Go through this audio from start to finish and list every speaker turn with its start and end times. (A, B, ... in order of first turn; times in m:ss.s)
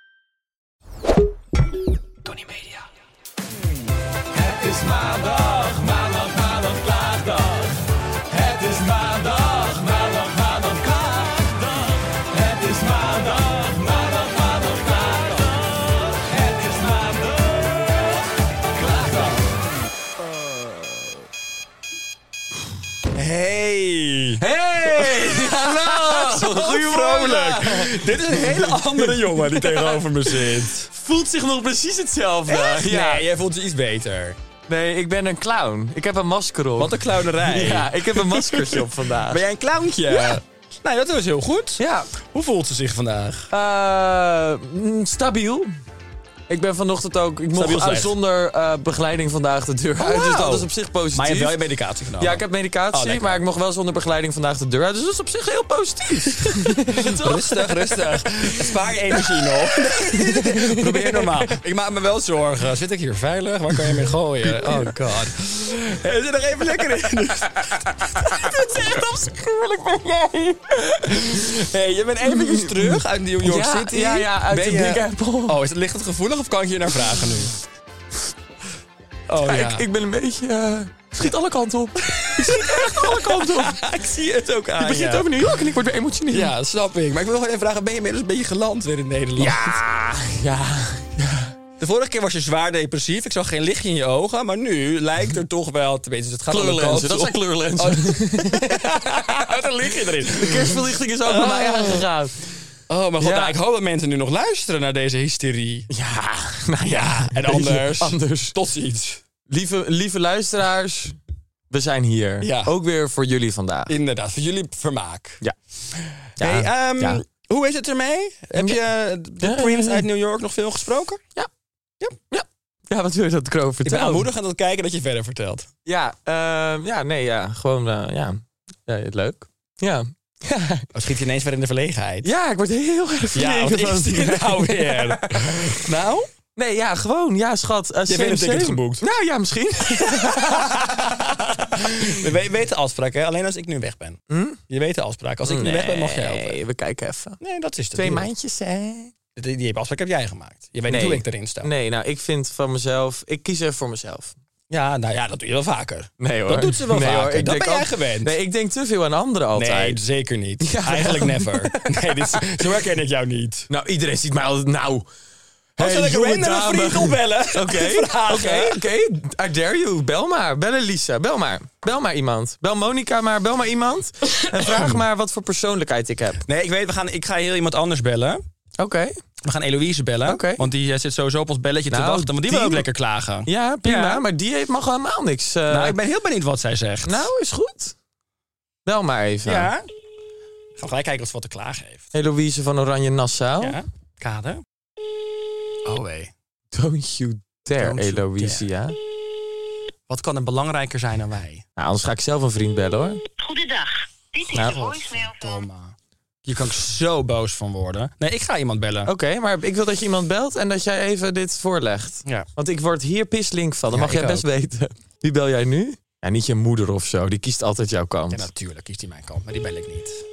0:04.5-0:07.2 A
0:08.5-0:10.0 A
0:12.8-0:13.5 A
0:19.0-0:19.2 B
0:23.1-0:30.9 B
0:24.4-0:33.2 A
0:32.5-0:34.4 B
0:34.7-0:39.4 A
0:36.8-0:43.5 B
0:40.1-0:40.4 A
0:41.8-0:42.1 A
0:43.5-0:45.7 A
0:46.5-0:51.6 A
0:47.5-0:48.1 B
0:50.0-0:53.4 B
0:52.2-0:58.0 A
0:56.4-1:09.0 B
0:58.6-0:59.5 A
1:00.1-1:01.5 A
1:03.8-1:05.0 A
1:06.7-1:11.6 A
1:11.0-1:17.6 B
1:12.2-1:15.6 A
1:19.3-1:19.8 B
1:19.4-1:23.8 A
1:22.1-1:25.3 B
1:24.8-1:26.5 A
1:26.3-1:29.8 B
1:29.4-1:31.5 A
1:31.8-1:42.0 B
1:36.5-1:38.8 A
1:40.3-1:42.4 A
1:42.9-1:45.9 B
1:43.2-1:43.6 A
1:45.9-1:48.5 A
1:46.8-1:49.2 B
1:49.5-1:51.2 A
1:51.7-1:53.9 A
1:52.4-1:52.7 B
1:53.9-1:55.4 B
1:55.9-2:01.2 B
1:56.4-1:57.2 A
1:59.4-2:00.0 A
2:02.3-2:04.3 A
2:03.8-2:05.7 B
2:05.8-2:10.9 A
2:10.9-2:12.3 B
2:12.2-2:15.9 A
2:13.3-2:16.3 B
2:16.6-2:21.0 A
2:18.1-2:19.0 B
2:20.0-2:26.6 B
2:21.8-2:22.1 A
2:24.3-2:24.6 A
2:25.4-2:27.4 A
2:27.4-2:28.3 B
2:27.9-2:29.1 A
2:29.3-2:31.7 B
2:30.9-2:34.3 A
2:34.7-2:38.3 B
2:36.2-2:40.0 A
2:39.5-2:43.7 B
2:40.6-2:42.7 A
2:43.7-2:45.1 A
2:45.8-2:48.8 B
2:45.8-2:56.4 A
2:56.4-2:58.4 B
2:58.8-2:59.2 A
2:59.4-3:04.2 B
3:00.2-3:00.6 A
3:01.9-3:02.8 A
3:03.4-3:06.0 A
3:05.7-3:07.3 B
3:07.0-3:07.9 A
3:08.8-3:09.7 A
3:09.4-3:09.9 B
3:10.8-3:12.0 B
3:12.1-3:13.8 A
3:13.6-3:14.6 B
3:15.8-3:16.3 B
3:16.7-3:19.0 A
3:17.8-3:18.7 B
3:20.1-3:21.6 B
3:21.8-3:23.2 A
3:23.4-3:25.6 C
3:24.5-3:24.8 A
3:24.6-3:29.1 B
3:29.0-3:38.5 A
3:33.9-3:34.4 B
3:38.3-3:40.2 B